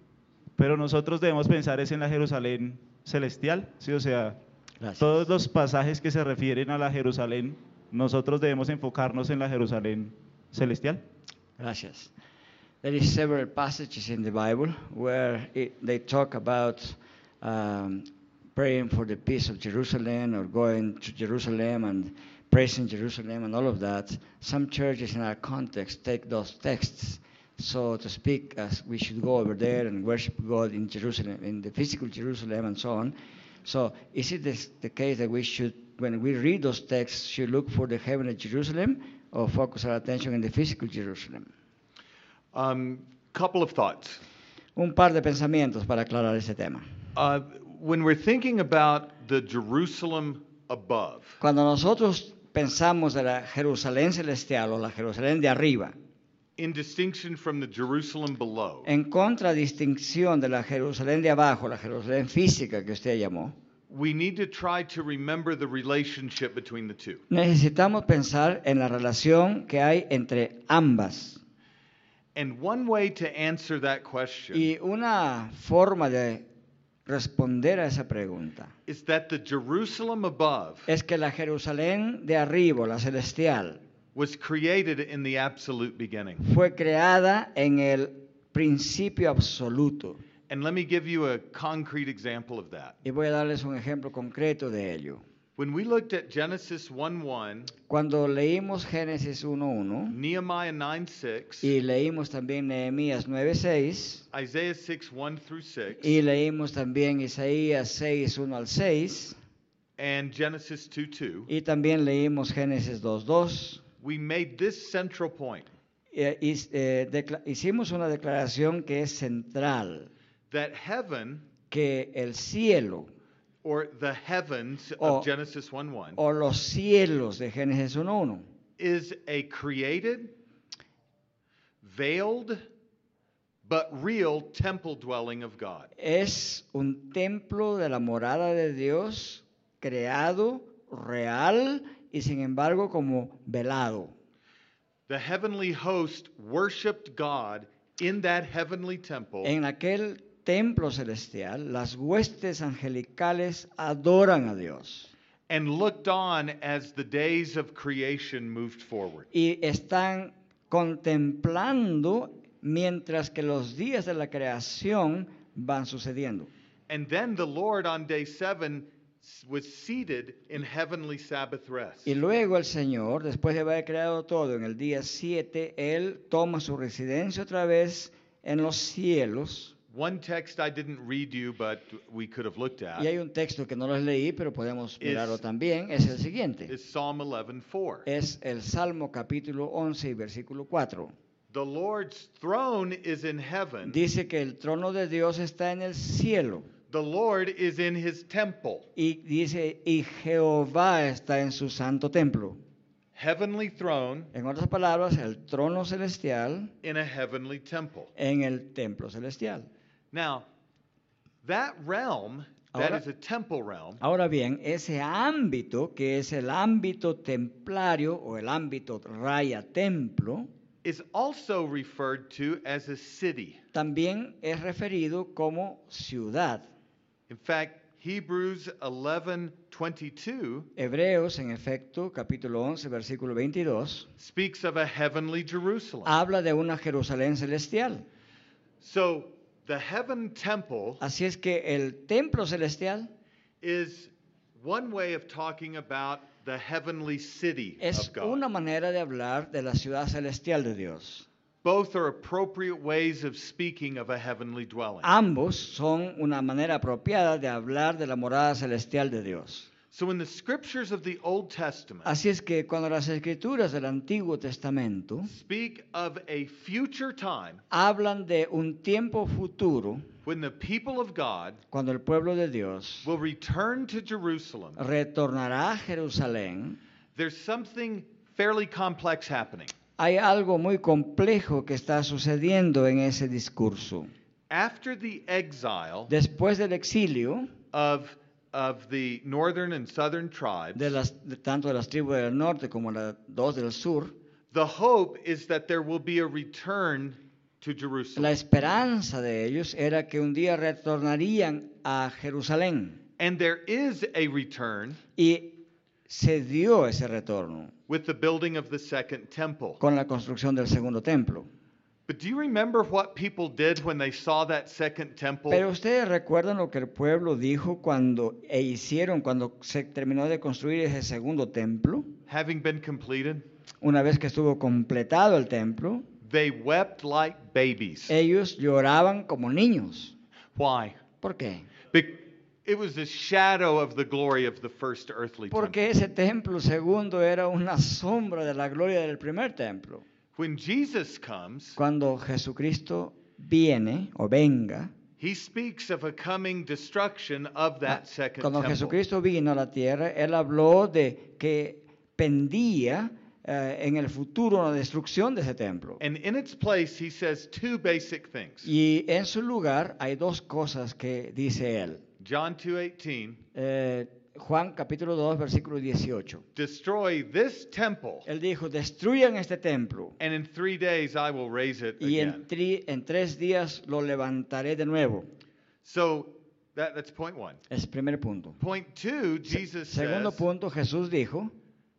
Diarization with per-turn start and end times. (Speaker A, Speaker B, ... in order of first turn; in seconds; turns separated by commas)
Speaker A: 0.6-4.4, Speaker B: 4.8-5.3, Speaker A: 5.0-11.0, Speaker B: 11.6-12.1, Speaker B: 12.8-41.5, Speaker C: 42.5-44.2, Speaker B: 44.8-46.9, Speaker C: 47.1-51.4, Speaker B: 51.4-56.0, Speaker C: 56.6-58.9, Speaker B: 58.9-63.6, Speaker C: 63.9-67.2, Speaker B: 67.3-71.4, Speaker C: 72.3-74.7, Speaker B: 74.5-76.5, Speaker B: 77.1-78.7, Speaker C: 78.9-80.9, Speaker B: 80.9-83.8, Speaker C: 84.2-86.4, Speaker B: 86.4-90.2, Speaker C: 90.5-93.0, Speaker B: 93.0-95.2, Speaker C: 95.6-97.7, Speaker B: 97.9-100.2, Speaker C: 100.1-101.7, Speaker B: 101.6-104.2, Speaker C: 104.3-106.2, Speaker B: 106.0-109.4, Speaker C: 110.0-111.5, Speaker B: 111.5-113.8, Speaker C: 114.0-115.7, Speaker B: 116.1-120.1, Speaker C: 120.5-121.5, Speaker B: 121.7-123.1, Speaker C: 123.6-126.2, Speaker B: 125.0-125.3, Speaker B: 126.2-128.5, Speaker C: 128.8-130.3, Speaker C: 131.8-132.6, Speaker C: 133.7-135.9, Speaker B: 136.0-144.2, Speaker C: 145.1-149.5, Speaker B: 149.4-155.1, Speaker C: 155.5-159.3, Speaker B: 159.3-166.5, Speaker C: 166.9-172.2, Speaker B: 172.1-179.7, Speaker C: 179.9-183.1, Speaker B: 183.0-186.7, Speaker C: 185.0-185.4, Speaker C: 186.7-188.1, Speaker B: 188.1-191.1, Speaker C: 191.5-194.0, Speaker B: 193.8-196.7, Speaker C: 196.9-198.9, Speaker B: 199.0-202.6, Speaker C: 203.2-204.3, Speaker B: 204.3-206.7, Speaker C: 206.8-208.1, Speaker B: 208.2-209.7, Speaker C: 210.1-210.5, Speaker C: 211.4-214.0, Speaker B: 212.7-213.0, Speaker B: 214.0-220.5, Speaker C: 220.8-223.6, Speaker B: 223.7-226.7, Speaker C: 227.3-230.7, Speaker B: 230.8-234.1, Speaker C: 234.2-236.1, Speaker B: 236.1-238.1, Speaker C: 238.8-241.0, Speaker B: 241.0-243.1, Speaker C: 243.6-248.4, Speaker B: 247.8-251.3, Speaker C: 251.6-255.1, Speaker B: 255.0-259.7, Speaker C: 259.9-262.1, Speaker B: 262.1-265.3, Speaker C: 265.3-267.6, Speaker B: 267.7-270.1, Speaker C: 270.2-271.6, Speaker B: 271.7-273.1, Speaker C: 273.0-274.8, Speaker B: 274.8-276.8, Speaker C: 277.1-279.7, Speaker B: 280.0-284.1, Speaker C: 284.5-286.1, Speaker B: 286.1-287.5, Speaker C: 287.7-291.0, Speaker B: 290.8-294.1, Speaker C: 294.5-298.3, Speaker B: 298.2-303.0, Speaker C: 303.2-305.0, Speaker B: 305.2-307.7, Speaker C: 307.9-309.8, Speaker B: 309.8-311.5, Speaker C: 312.1-315.6, Speaker B: 315.5-322.1, Speaker C: 322.3-323.4, Speaker B: 323.8-326.1, Speaker C: 326.2-328.1, Speaker B: 328.1-330.2, Speaker C: 330.6-331.0, Speaker B: 331.2-331.7, Speaker C: 331.9-335.9, Speaker B: 335.5-340.1, Speaker C: 340.4-341.8, Speaker B: 341.8-344.9, Speaker C: 345.2-349.0, Speaker B: 347.9-356.0, Speaker C: 356.0-358.7, Speaker B: 358.6-362.0, Speaker C: 362.2-363.4, Speaker B: 363.6-366.4, Speaker C: 366.6-368.3, Speaker B: 368.3-370.2, Speaker C: 370.2-372.4, Speaker B: 372.0-375.3, Speaker C: 375.8-377.6, Speaker B: 377.7-378.6, Speaker C: 378.6-380.5, Speaker B: 379.5-381.5